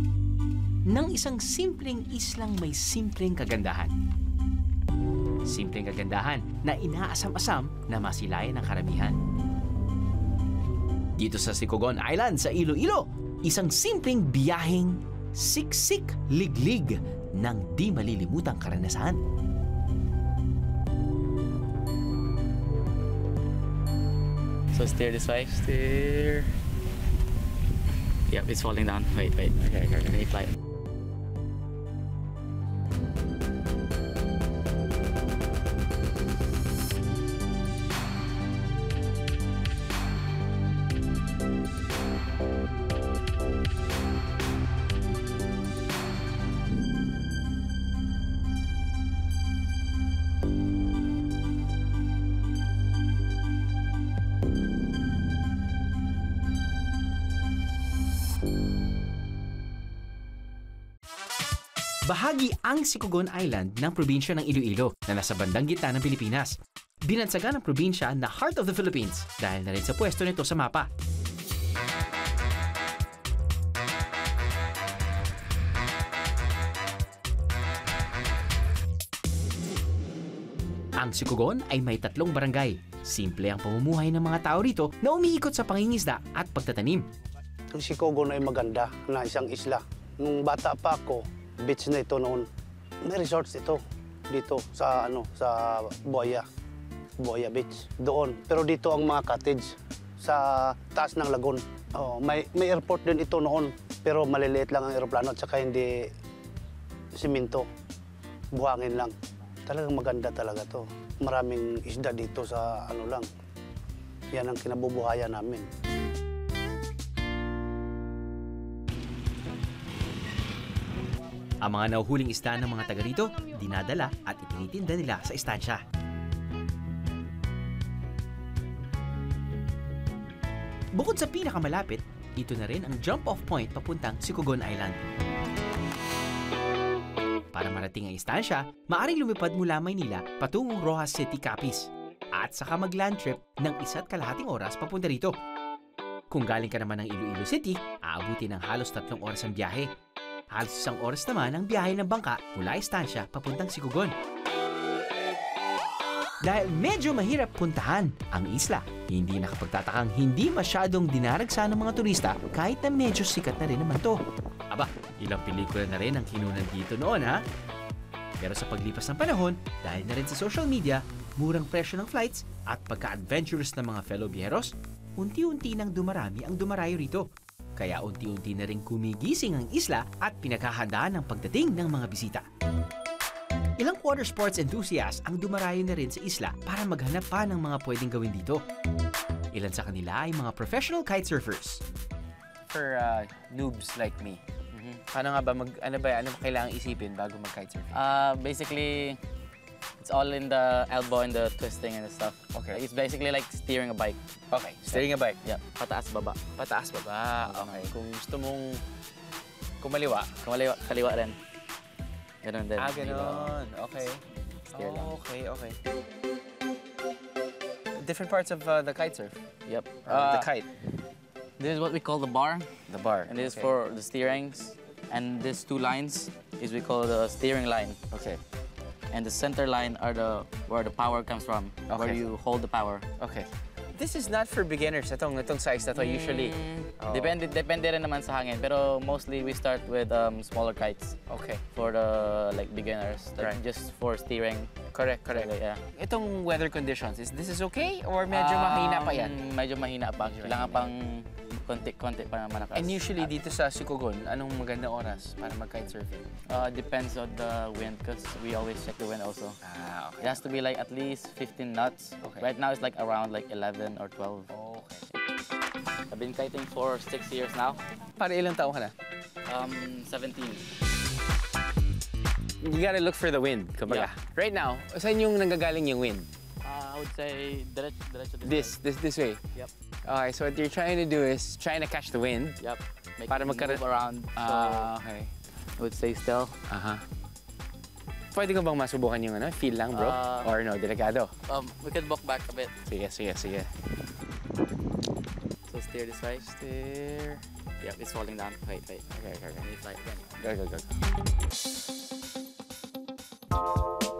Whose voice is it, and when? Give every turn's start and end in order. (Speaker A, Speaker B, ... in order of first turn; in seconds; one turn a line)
Speaker A: 0.9-3.9
Speaker A: 5.5-9.2
Speaker A: 11.2-19.2
Speaker B: 24.7-26.4
Speaker B: 28.3-30.5
Speaker A: 62.0-70.9
Speaker A: 81.0-87.0
Speaker C: 87.7-92.5
Speaker C: 93.0-93.8
Speaker C: 94.3-96.4
Speaker C: 97.2-99.7
Speaker C: 100.2-106.1
Speaker C: 107.2-107.6
Speaker C: 108.5-109.1
Speaker C: 109.7-113.3
Speaker C: 114.3-115.6
Speaker A: 121.6-125.8
Speaker A: 130.9-135.0
Speaker A: 137.5-145.3
Speaker A: 146.3-149.9
Speaker A: 150.5-154.1
Speaker A: 156.4-164.2
Speaker A: 164.7-167.4
Speaker A: 168.4-182.4
Speaker A: 183.8-188.6
Speaker A: 189.5-191.8
Speaker D: 192.7-194.4
Speaker B: 194.7-195.0
Speaker D: 195.1-197.9
Speaker B: 197.9-199.2
Speaker B: 200.0-204.2
Speaker D: 202.5-202.8
Speaker D: 204.5-205.4
Speaker B: 204.9-206.4
Speaker D: 206.6-208.8
Speaker B: 207.4-207.9
Speaker D: 209.8-210.3
Speaker B: 210.4-211.4
Speaker B: 212.4-213.5
Speaker D: 212.8-214.2
Speaker B: 214.7-215.1
Speaker D: 214.7-215.8
Speaker D: 217.9-219.4
Speaker B: 219.7-220.5
Speaker D: 220.0-220.7
Speaker B: 221.6-222.7
Speaker D: 222.9-223.7
Speaker B: 223.3-228.0
Speaker D: 228.1-228.4
Speaker B: 229.1-233.1
Speaker D: 231.9-232.2
Speaker D: 233.2-237.4
Speaker B: 235.9-241.1
Speaker D: 241.3-241.6
Speaker B: 241.7-244.7
Speaker D: 244.9-249.3
Speaker B: 245.3-245.8
Speaker B: 248.3-253.3
Speaker D: 250.3-250.9
Speaker D: 252.7-256.3
Speaker B: 256.5-259.6
Speaker D: 259.6-260.5
Speaker B: 260.2-264.5
Speaker D: 262.2-262.5
Speaker D: 264.5-265.0
Speaker B: 266.1-267.8
Speaker D: 268.2-268.9
Speaker B: 269.5-270.7
Speaker D: 272.6-276.3
Speaker B: 276.6-278.8
Speaker D: 278.4-279.4
Speaker D: 280.0-282.6
Speaker B: 282.6-284.9
Speaker D: 283.3-283.8
Speaker D: 284.4-285.3
Speaker B: 285.8-286.6
Speaker D: 286.7-287.0
Speaker D: 288.3-291.3
Speaker B: 289.9-290.5
Speaker B: 291.5-292.7
Speaker D: 292.9-293.7
Speaker B: 295.7-296.5
Speaker D: 296.4-297.4
Speaker B: 297.8-299.1
Speaker D: 299.1-299.7
Speaker B: 299.6-300.4
Speaker D: 300.4-300.9